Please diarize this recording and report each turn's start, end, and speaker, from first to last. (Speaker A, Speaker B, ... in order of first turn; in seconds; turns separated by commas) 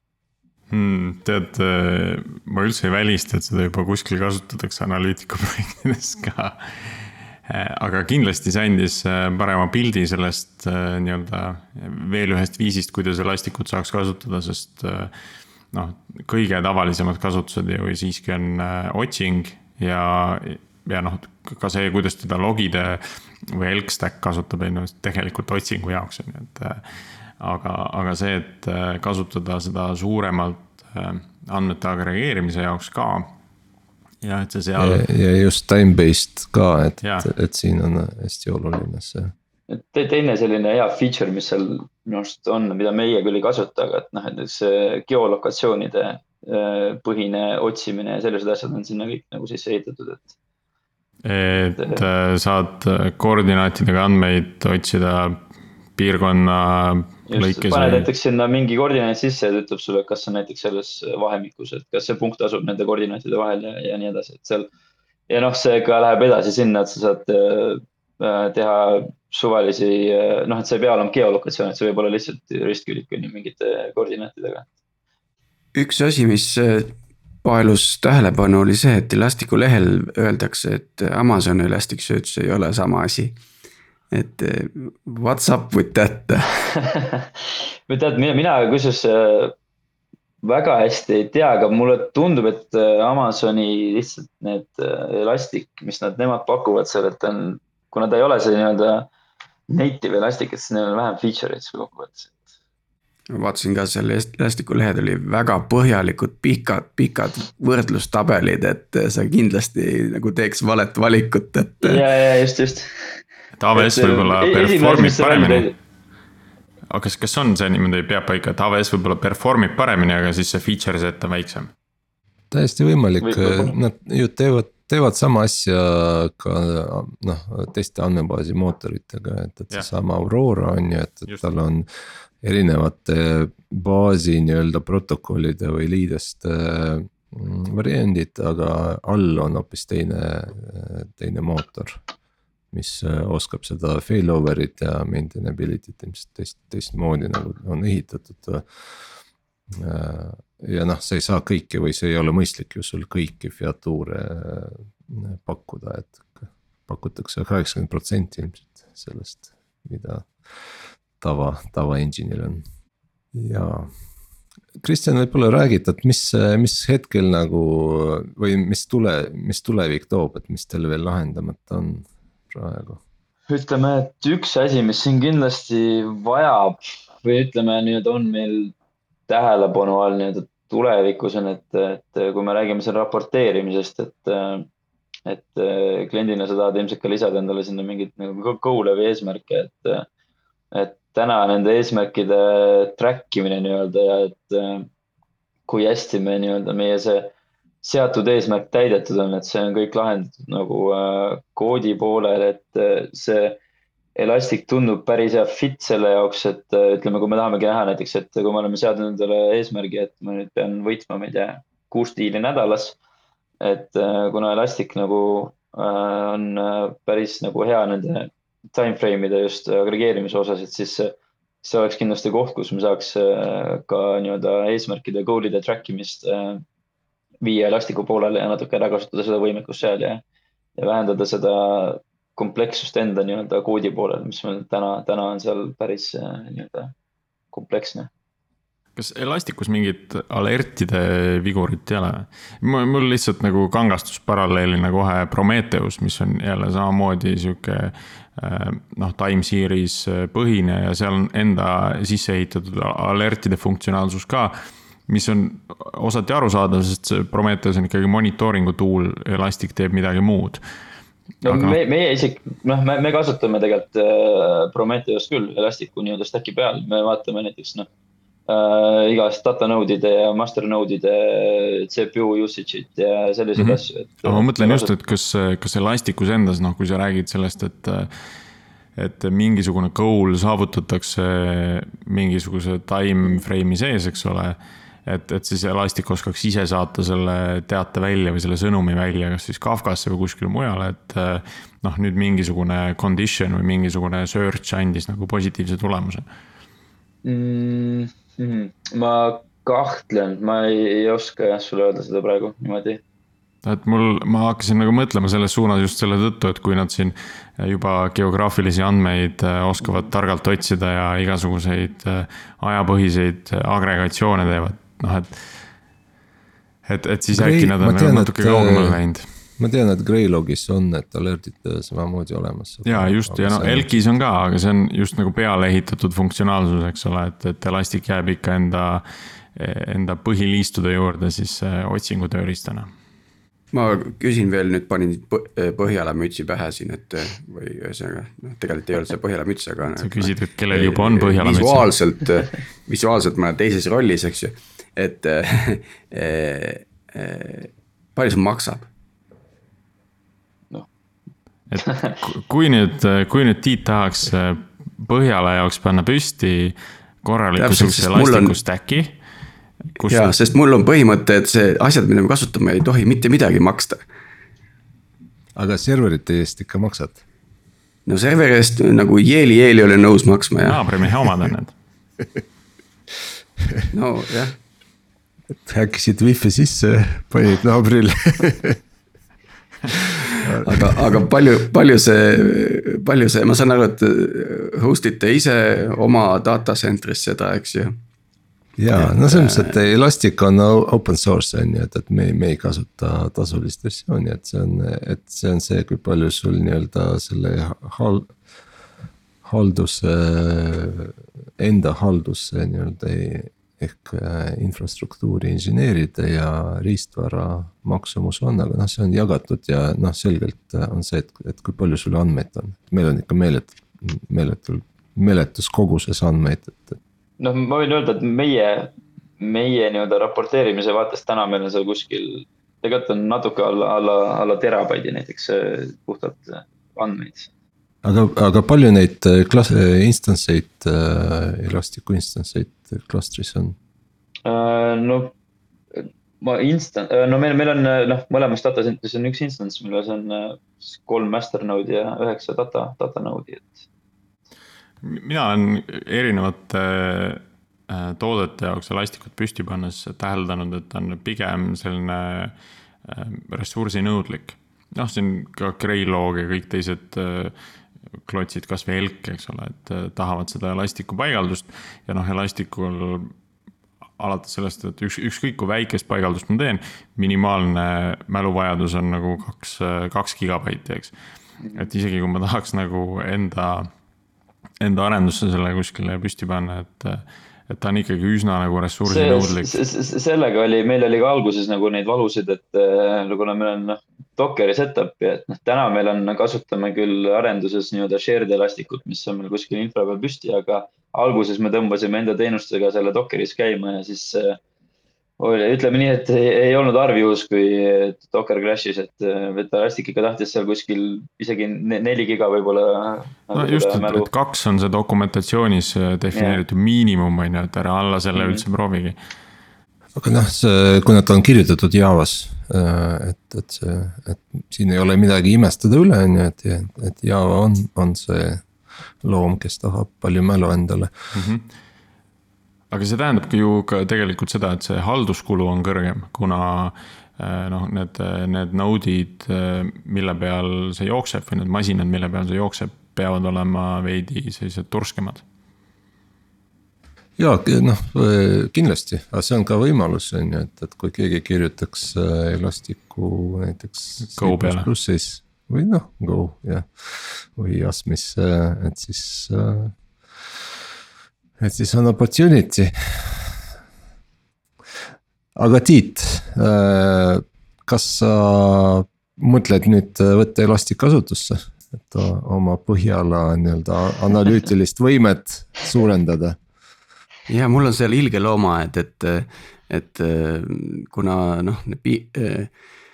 Speaker A: 0.7-15.1, Speaker A: 15.7-33.4, Speaker A: 34.2-35.0, Speaker B: 34.8-39.3, Speaker A: 37.0-37.3, Speaker C: 39.7-50.3, Speaker A: 51.2-58.1, Speaker C: 51.8-52.0, Speaker C: 57.3-64.7, Speaker C: 65.3-74.7, Speaker D: 75.7-83.4, Speaker D: 84.1-86.7, Speaker C: 86.8-87.3, Speaker C: 87.9-89.5, Speaker C: 90.4-99.1, Speaker C: 99.7-102.4, Speaker D: 103.3-112.0, Speaker C: 111.8-113.2, Speaker A: 113.5-115.7, Speaker C: 113.7-115.7, Speaker A: 116.9-121.7, Speaker B: 122.5-131.9, Speaker C: 123.2-123.7, Speaker B: 132.4-142.0, Speaker B: 142.7-148.8, Speaker B: 149.7-160.6, Speaker B: 161.2-162.6, Speaker B: 163.3-163.9, Speaker B: 164.8-173.0, Speaker C: 173.5-178.7, Speaker C: 179.3-184.7, Speaker C: 185.3-190.1, Speaker C: 190.7-194.9, Speaker C: 195.7-203.6, Speaker C: 204.2-213.0, Speaker C: 213.6-226.6, Speaker C: 227.4-230.2, Speaker C: 230.8-236.9, Speaker C: 237.5-238.1, Speaker A: 238.9-254.6, Speaker A: 255.1-260.6, Speaker A: 261.4-261.8, Speaker C: 261.4-267.9, Speaker C: 268.5-274.9, Speaker A: 273.6-278.3, Speaker A: 278.9-296.2, Speaker C: 297.2-303.0, Speaker A: 303.6-315.4, Speaker A: 316.8-319.3, Speaker B: 317.3-319.0, Speaker B: 319.6-324.0, Speaker A: 322.8-332.9, Speaker D: 333.7-348.9, Speaker A: 340.0-341.9, Speaker A: 351.7-359.2, Speaker D: 357.6-358.6, Speaker A: 360.0-360.3, Speaker D: 360.1-364.0, Speaker B: 365.5-367.2, Speaker D: 368.1-370.8, Speaker A: 370.6-371.7, Speaker D: 373.9-374.6, Speaker B: 375.6-378.8, Speaker B: 379.9-381.2, Speaker D: 380.6-387.9, Speaker B: 388.8-398.3, Speaker D: 388.9-389.8, Speaker B: 399.4-417.0, Speaker C: 417.4-427.5, Speaker B: 428.0-433.7, Speaker C: 434.4-435.3, Speaker C: 435.9-443.9, Speaker A: 445.0-457.5, Speaker A: 458.2-463.3, Speaker A: 464.2-471.1, Speaker C: 471.6-471.9, Speaker A: 471.7-473.9, Speaker A: 474.8-479.8, Speaker C: 479.1-494.6, Speaker C: 495.4-504.3, Speaker A: 503.5-509.1, Speaker C: 506.3-506.6, Speaker C: 508.3-508.6, Speaker B: 510.1-518.6, Speaker B: 519.2-521.1, Speaker A: 521.3-521.7, Speaker A: 522.9-535.4, Speaker B: 537.4-550.5, Speaker A: 544.2-544.9, Speaker B: 551.6-553.6, Speaker B: 555.5-566.6, Speaker D: 567.5-572.7